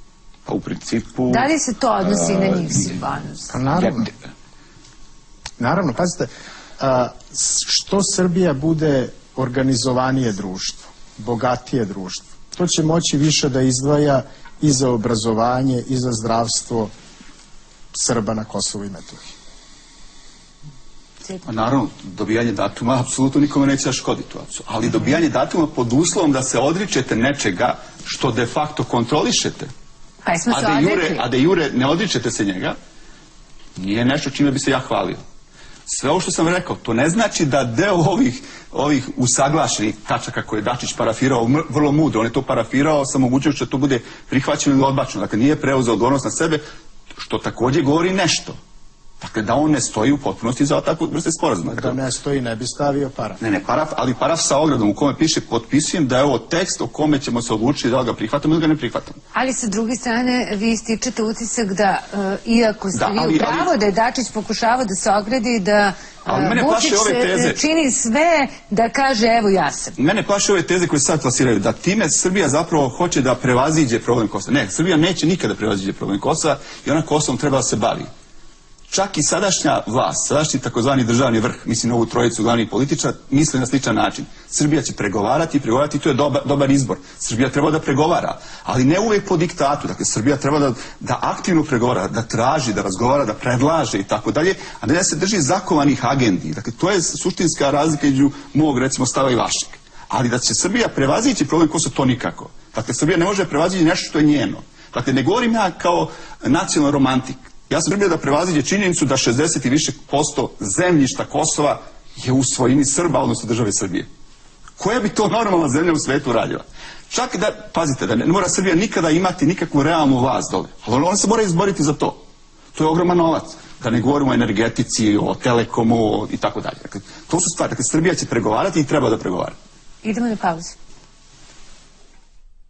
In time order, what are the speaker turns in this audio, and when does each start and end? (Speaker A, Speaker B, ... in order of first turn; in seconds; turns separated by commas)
Speaker A: 0.5-2.9, Speaker B: 1.3-3.6, Speaker C: 3.5-4.1, Speaker A: 3.7-4.3, Speaker C: 5.6-16.9, Speaker C: 17.9-19.3, Speaker D: 21.4-29.7, Speaker B: 30.2-31.2, Speaker D: 30.5-32.8, Speaker D: 33.8-35.2, Speaker D: 35.9-46.6, Speaker D: 47.1-48.6, Speaker D: 49.2-52.0, Speaker C: 51.7-53.4, Speaker D: 53.4-59.2, Speaker B: 59.3-70.0, Speaker D: 62.9-63.7, Speaker D: 66.3-67.6, Speaker D: 70.0-78.1, Speaker D: 78.9-114.1, Speaker D: 114.8-122.2, Speaker D: 122.7-129.6, Speaker B: 130.0-130.8